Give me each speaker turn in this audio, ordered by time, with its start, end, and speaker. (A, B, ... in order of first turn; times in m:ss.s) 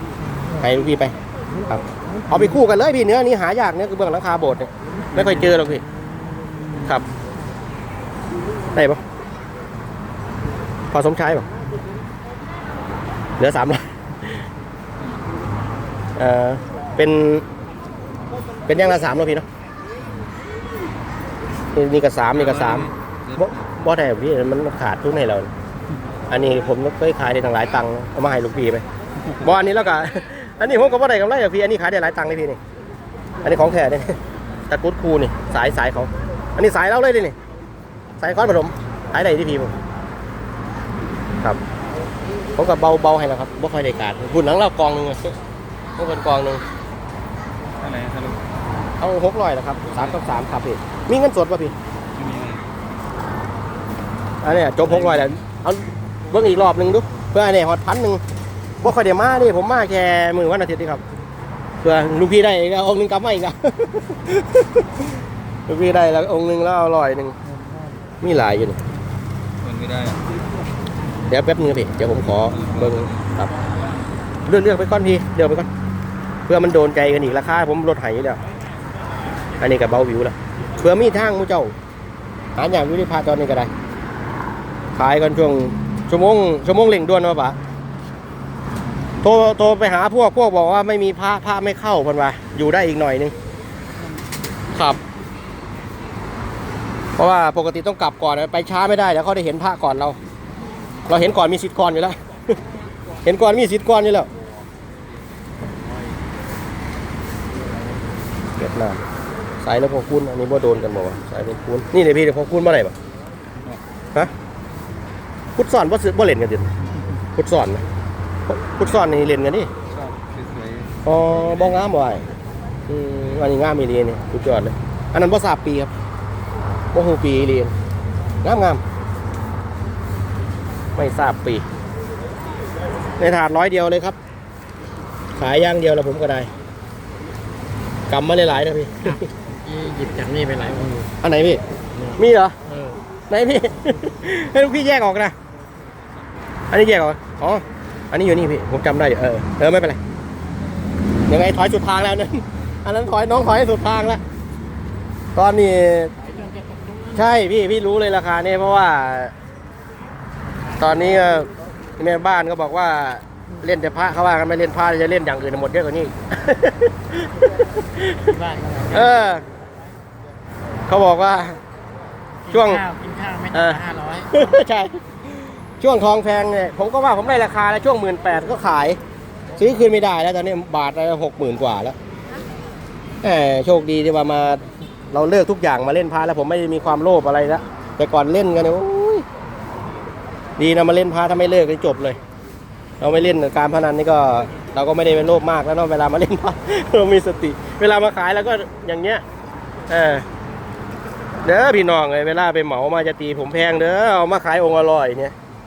0:00.5-0:01.1 A
0:01.7-0:05.8 A
0:06.8-0:07.1 A
0:08.7-0:09.0 A
0:10.9-0:11.5 A
0:13.4-0:14.4 A
0:16.2-0:17.4 A
0:18.7-0:19.4 A
0:21.7-0:25.5 A
0:22.6-0:23.5 B
0:26.3-0:28.8 A
0:29.4-0:32.6 A
0:33.4-0:37.3 A
0:38.2-0:39.7 A
0:42.6-0:45.4 A
0:46.0-0:46.6 A
0:47.8-0:48.4 B
0:49.0-0:51.7 A
0:52.2-0:52.6 B
0:54.4-0:58.2 A
0:58.8-1:01.0 A
1:01.8-1:05.0 A
1:05.7-1:07.4 A
1:08.2-1:08.8 A
1:09.6-1:10.2 B
1:11.3-1:13.5 A
1:14.4-1:15.7 A
1:16.5-1:18.4 A
1:19.6-1:21.7 A
1:22.6-1:23.7 A
1:24.9-1:27.6 A
1:29.2-1:33.3 A
1:34.7-1:35.0 A
1:37.2-1:40.2 A
1:41.1-1:42.2 A
1:43.2-1:44.3 A
1:48.6-1:49.0 A
1:49.6-1:52.9 A
1:55.6-1:56.7 A
1:57.4-1:57.8 A
1:58.5-1:59.7 A
1:59.9-2:01.0 B
2:01.0-2:02.2 A
2:02.9-2:05.9 A
2:06.9-2:07.7 A
2:08.4-2:08.8 A
2:11.0-2:11.6 A
2:13.2-2:14.2 A
2:15.4-2:16.5 A
2:18.1-2:19.3 A
2:19.6-2:21.1 C
2:21.2-2:22.6 A
2:22.7-2:23.0 C
2:23.3-2:25.3 A
2:26.7-2:30.0 A
2:31.3-2:34.2 A
2:35.4-2:36.1 A
2:37.1-2:39.3 A
2:40.8-2:48.4 A
2:48.2-2:49.1 C
2:48.9-2:49.4 A
2:50.8-2:51.6 A
2:52.5-2:54.3 C
2:52.5-2:52.8 A
2:53.5-2:59.0 A
2:59.6-3:02.0 A
3:03.2-3:09.2 A
3:10.6-3:12.2 A
3:13.0-3:19.2 A
3:19.9-3:20.2 A
3:21.4-3:25.3 A